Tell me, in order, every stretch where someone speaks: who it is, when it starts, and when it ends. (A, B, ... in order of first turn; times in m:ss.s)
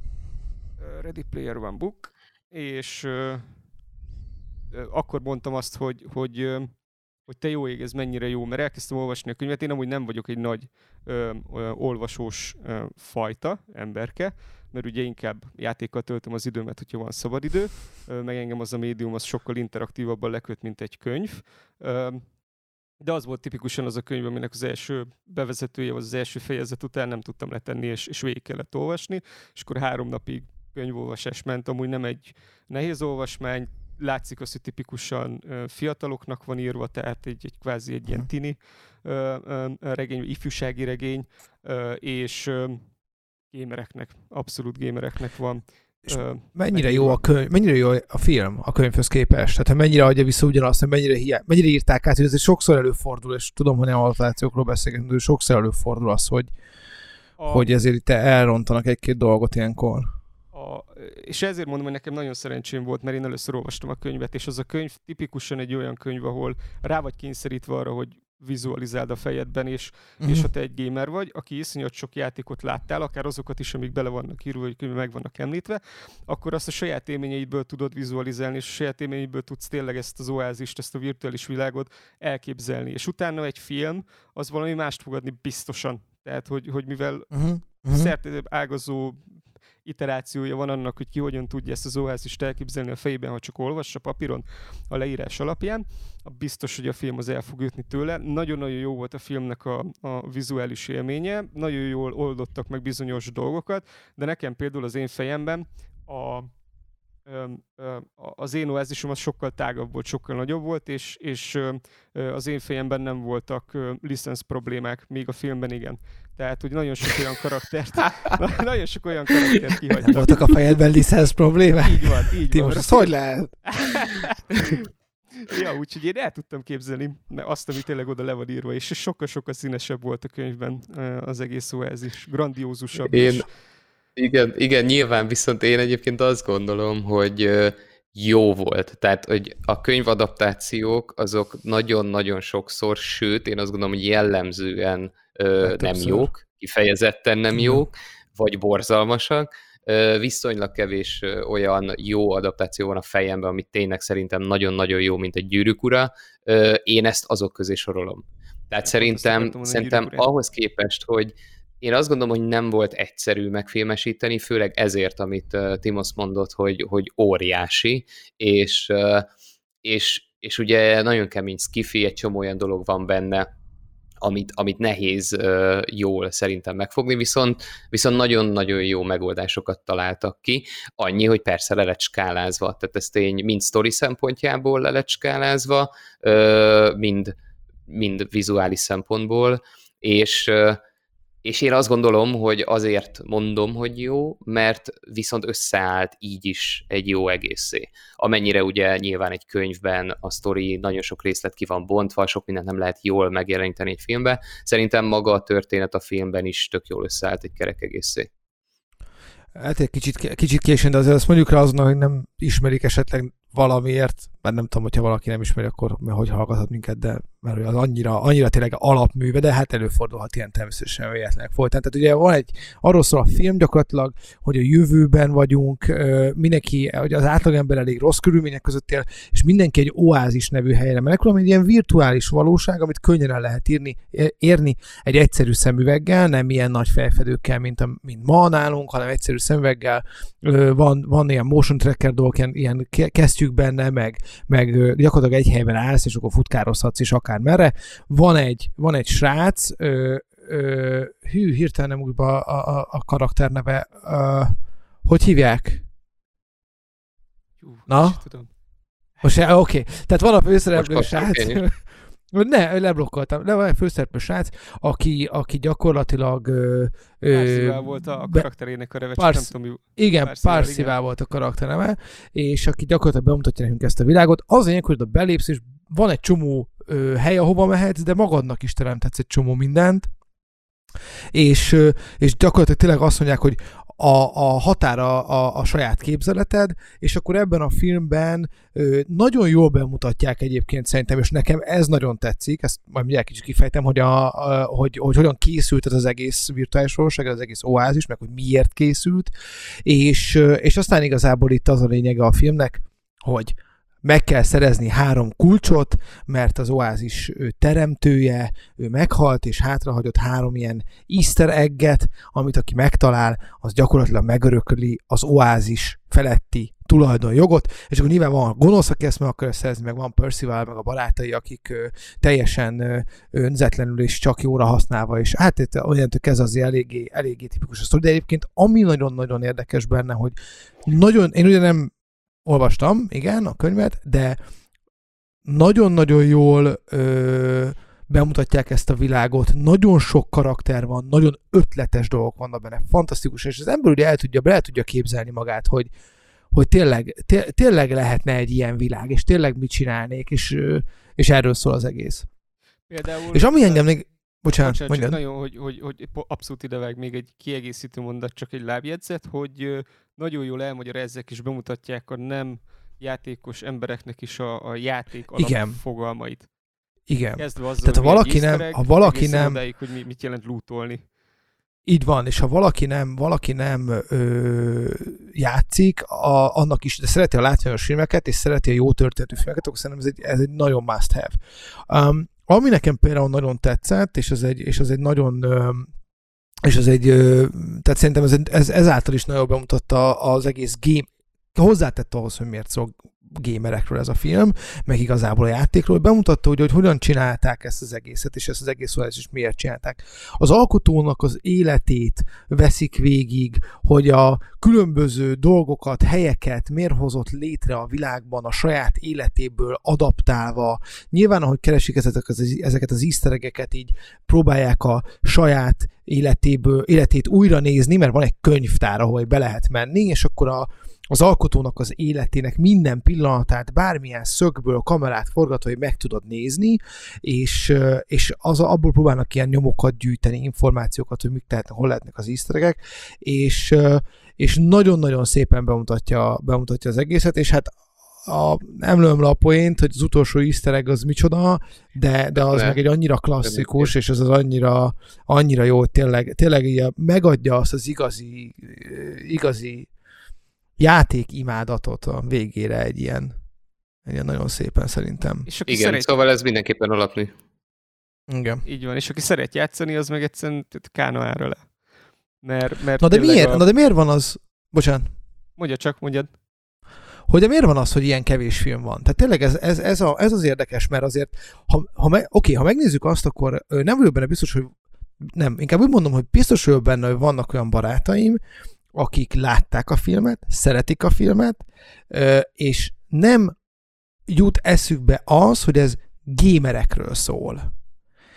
0:00.8-0:03.6 A
0:04.7-0:22.3 A
0:23.0-0:42.9 A
0:43.5-0:47.2 A
0:46.0-0:56.5 B
0:57.4-0:57.7 A
0:57.4-1:00.1 B
1:00.5-1:46.5 A
1:10.2-1:10.5 B
1:27.3-1:28.1 B
1:47.2-2:00.5 A
2:00.1-2:04.0 B
2:01.8-2:03.1 A
2:03.7-2:04.8 A
2:05.4-2:13.5 A
2:13.1-2:13.5 C
2:14.2-2:49.3 C
2:25.6-2:26.3 B
2:27.5-2:27.8 B
2:38.8-2:40.3 A
2:49.8-2:53.5 C
2:54.2-3:07.3 C
3:07.9-3:10.8 C
3:11.4-3:28.3 C
3:29.5-4:14.5 B
4:15.0-4:15.8 B
4:17.6-4:18.5 A
4:17.9-4:18.2 B
4:19.2-4:28.5 B
4:20.7-4:21.6 C
4:27.3-4:30.9 A
4:29.2-4:40.1 B
4:41.3-4:59.3 B
4:59.8-5:31.9 B
5:32.4-5:34.4 B
5:35.4-5:45.9 B
5:46.5-5:52.3 B
5:52.9-5:53.9 A
5:53.3-5:55.2 B
5:54.6-6:06.5 A
6:05.3-6:05.8 B
6:07.1-6:09.6 B
6:07.4-6:11.0 A
6:11.8-6:21.3 B
6:21.9-6:25.9 B
6:26.6-7:29.9 B
7:22.3-7:22.8 C
7:23.4-7:23.9 C
7:30.8-7:33.4 B
7:34.0-7:35.5 B
7:35.4-7:36.1 A
7:35.7-7:37.3 C
7:38.3-7:38.6 B
7:38.6-7:41.6 A
7:42.4-7:43.6 A
7:43.0-7:45.1 B
7:45.6-7:46.3 A
7:47.3-7:58.4 B
7:58.9-8:03.5 B
8:04.3-8:07.7 B